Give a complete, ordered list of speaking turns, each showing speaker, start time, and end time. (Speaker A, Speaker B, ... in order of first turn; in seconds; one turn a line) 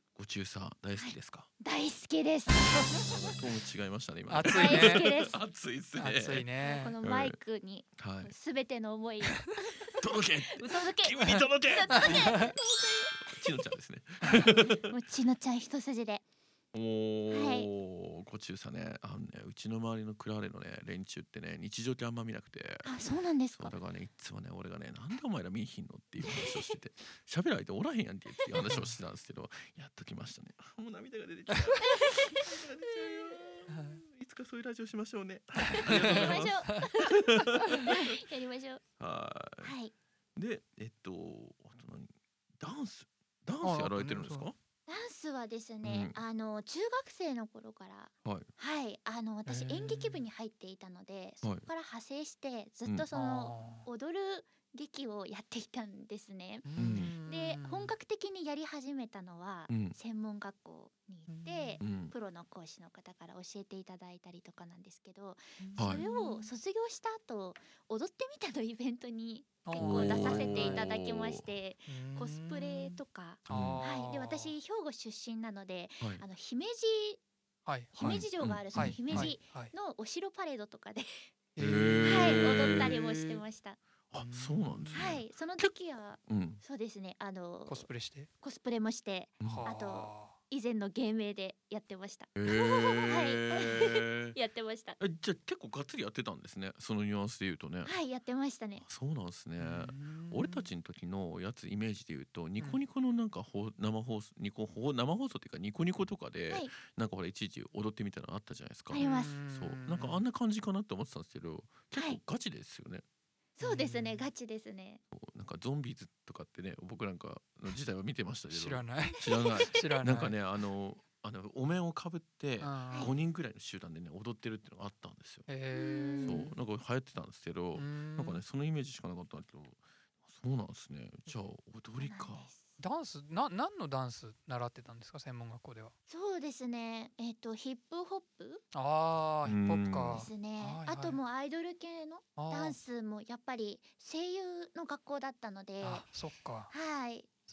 Speaker A: 0.1-1.5
Speaker B: 1.0-3.1
Speaker A: 2.9-6.5
Speaker C: 4.3-5.1
Speaker B: 4.5-5.4
Speaker C: 6.0-7.0
Speaker B: 6.6-10.0
Speaker A: 7.0-7.3
Speaker A: 8.0-8.3
Speaker A: 10.0-14.9
Speaker B: 10.5-13.3
Speaker C: 11.2-12.5
Speaker B: 14.3-16.2
Speaker A: 16.7-22.9
Speaker B: 17.3-17.7
Speaker B: 22.8-23.7
Speaker A: 23.5-38.1
Speaker B: 26.2-26.7
Speaker B: 31.8-33.4
Speaker C: 35.7-36.9
Speaker B: 35.7-38.8
Speaker A: 39.0-39.7
Speaker B: 39.6-39.9
Speaker A: 40.4-44.5
Speaker C: 43.6-44.5
Speaker B: 44.9-77.2
Speaker A: 45.8-46.2
Speaker A: 48.2-48.5
Speaker C: 49.5-50.2
Speaker C: 53.1-53.9
Speaker C: 56.6-57.9
Speaker A: 56.8-57.1
Speaker A: 59.7-60.0
Speaker C: 61.3-61.8
Speaker A: 61.8-62.1
Speaker C: 65.6-66.5
Speaker A: 65.8-66.0
Speaker C: 69.6-70.9
Speaker A: 69.7-71.5
Speaker C: 71.9-74.5
Speaker A: 73.5-73.8
Speaker C: 77.7-79.7
Speaker B: 77.9-81.3
Speaker A: 78.0-79.3
Speaker C: 81.5-82.9
Speaker A: 81.6-83.3
Speaker B: 82.1-83.8
Speaker A: 84.1-85.7
Speaker C: 84.2-85.1
Speaker B: 84.9-87.8
Speaker A: 86.3-86.6
Speaker C: 87.7-88.3
Speaker B: 88.4-95.0
Speaker A: 89.4-89.7
Speaker C: 89.5-90.3
Speaker A: 92.3-94.3
Speaker A: 95.0-97.9
Speaker B: 97.8-98.8
Speaker A: 98.8-113.0
Speaker C: 99.6-100.7
Speaker B: 108.9-109.3
Speaker C: 109.0-110.2
Speaker B: 111.9-112.2
Speaker B: 113.6-115.0
Speaker C: 113.6-114.3
Speaker A: 115.1-125.5
Speaker C: 118.5-120.3
Speaker C: 122.6-123.1
Speaker C: 125.5-126.5
Speaker B: 125.7-126.5
Speaker A: 126.2-132.5
Speaker C: 127.8-128.4
Speaker B: 132.0-132.7
Speaker C: 132.8-135.9
Speaker B: 136.1-138.6
Speaker C: 138.7-141.2
Speaker A: 139.4-140.3
Speaker B: 140.1-146.0
Speaker C: 142.4-142.8
Speaker C: 145.8-146.7
Speaker B: 146.7-147.3